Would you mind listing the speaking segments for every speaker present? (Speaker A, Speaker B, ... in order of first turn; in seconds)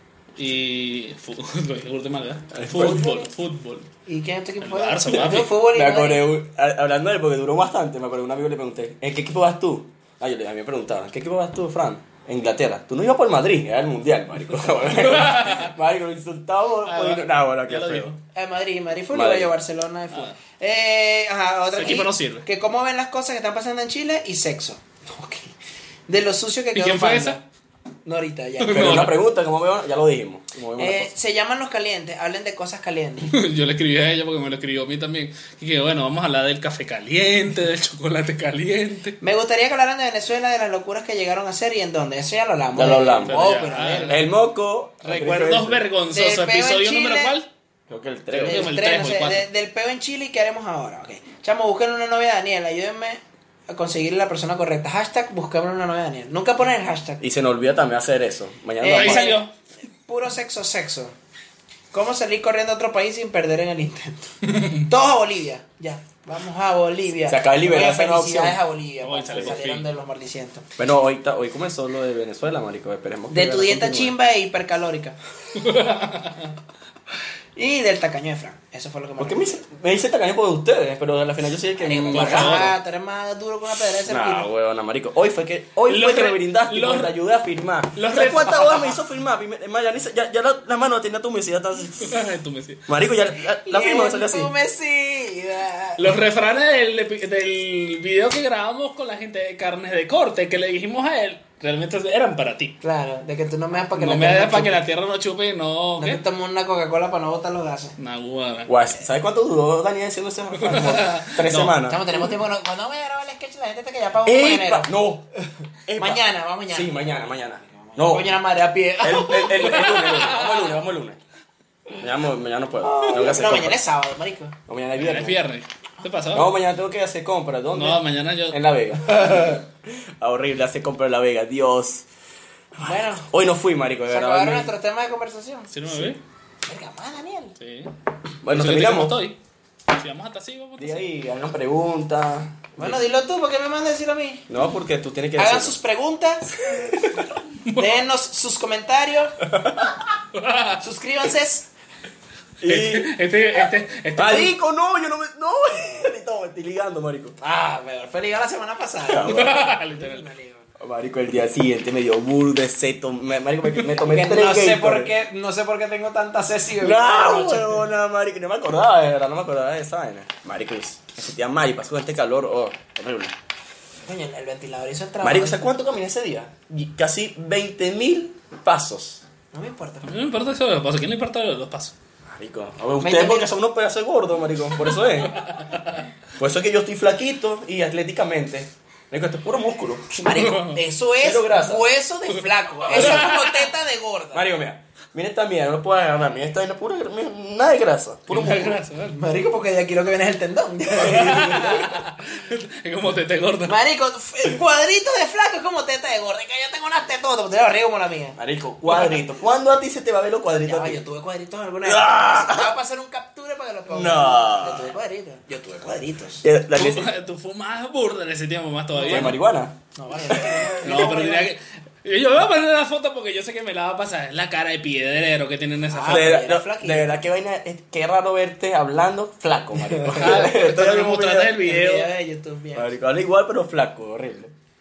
Speaker A: 0.3-3.9, 4.6-5.5, 14.9-15.7, 16.8-18.2, 20.1-20.4, 21.7-22.4, 26.7-27.4, 28.6-29.1, 33.3-39.2, 43.2-44.2, 45.0-47.5, 48.4-49.5, 58.9-59.5, 69.0-69.9, 75.5-76.5, 82.1-82.7, 85.9-87.1, 87.9-89.0, 92.0-92.8, 96.0-102.8, 104.0-106.2, 108.0-108.7, 110.6-111.8, 119.6-120.7, 125.0-126.5, 127.7-128.6, 135.7-136.2, 137.6-137.9, 138.5-141.0, 150.3-150.8, 152.7-154.5, 159.2-160.3, 180.0-181.9, 185.4-185.7, 190.4-190.8, 192.9-193.7, 198.3-199.1, 201.0-203.8, 216.7-219.3, 220.8-226.4, 230.2-232.1
Speaker B: 2.5-3.0, 5.7-18.1, 19.1-19.5, 28.7-31.1, 42.7-43.4, 44.1-45.8, 47.9-48.7, 57.2-59.4, 67.2-68.6, 70.8-74.1, 79.2-82.7, 84.0-92.2, 92.9-94.5, 108.7-112.0, 114.2-115.3, 115.9-118.3, 119.0-121.2, 122.0-123.8, 124.7-125.4, 126.3-132.0, 132.8-134.7, 135.9-136.2, 138.4-139.2, 140.8-143.0, 144.5-145.8, 146.6-147.3, 149.5-149.8, 152.6-153.1, 154.2-157.3, 159.1-159.6, 160.8-165.1, 166.8-173.3, 175.2-179.2, 182.3-185.4, 186.4-190.1, 191.2-191.8, 192.9-193.3, 194.3-198.8, 208.4-211.0, 211.8-212.7, 213.9-214.9, 216.4-217.1, 219.1-219.8, 220.3-220.8, 226.1-231.5, 232.7-234.5
Speaker C: 2.8-3.3, 4.1-6.3, 18.3-25.5, 26.1-27.4, 28.1-29.1, 30.8-33.3, 39.2-44.2, 46.1-47.3, 48.4-57.2, 58.8-61.1, 61.9-70.6, 73.3-75.2, 77.5-79.6, 81.8-84.5, 93.6-96.0, 102.8-104.8, 106.0-108.0, 111.8-114.9, 116.0-117.3, 117.8-120.0, 122.8-124.5, 132.8-133.2, 134.1-135.7, 136.7-137.6, 142.8-144.5, 145.4-146.5, 147.7-149.3, 150.8-151.7, 157.4-160.7, 164.1-167.8, 174.0-175.6, 179.5-180.1, 183.0-183.5, 190.1-194.4, 199.1-201.9, 203.7-208.4, 210.6-216.4, 218.9-219.3, 219.9-221.5, 225.9-227.1, 231.6-232.9